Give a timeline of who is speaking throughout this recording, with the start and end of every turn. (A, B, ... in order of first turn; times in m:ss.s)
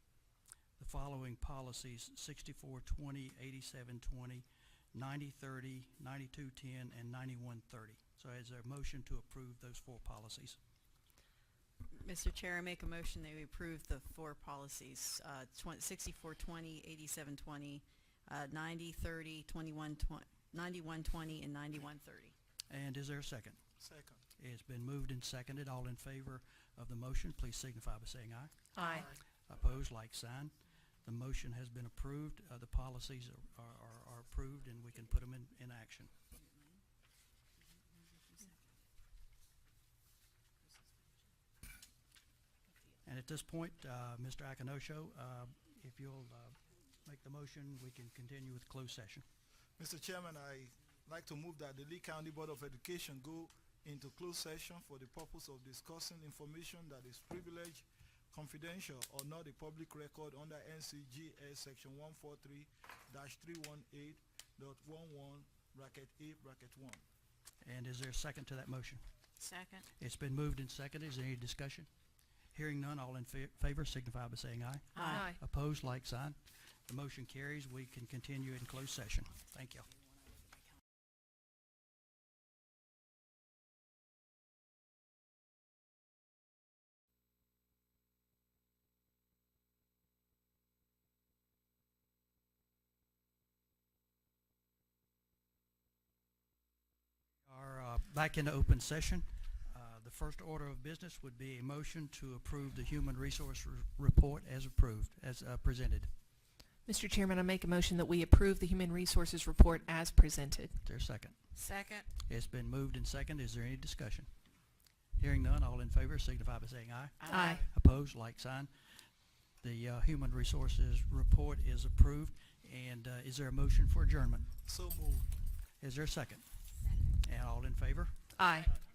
0:00.8-0:10.6 A
0:11.9-0:22.4 B
0:22.7-0:23.6 A
0:23.8-0:24.2 C
0:24.4-0:28.7 A
0:28.7-0:29.1 D
0:28.8-0:29.2 C
0:29.4-0:36.1 A
0:36.4-0:36.8 B
0:38.1-0:38.6 B
0:43.0-0:49.2 A
0:49.8-1:07.0 C
1:07.6-1:09.0 A
1:09.4-1:09.9 B
1:10.0-1:11.9 A
1:12.5-1:16.4 A
1:14.9-1:15.3 B
1:15.0-1:15.4 D
1:16.9-1:19.9 A
1:37.4-1:46.1 A
1:46.8-1:50.8 D
1:50.8-1:51.4 A
1:51.5-1:52.1 B
1:52.2-1:54.3 A
1:55.2-1:58.7 A
1:57.2-1:57.6 B
1:57.3-1:57.6 D
1:57.4-1:57.7 C
1:59.6-2:04.5 A
2:04.6-2:05.3 C
2:05.8-2:06.4 A
2:07.2-2:08.2 A
2:08.4-2:08.7 D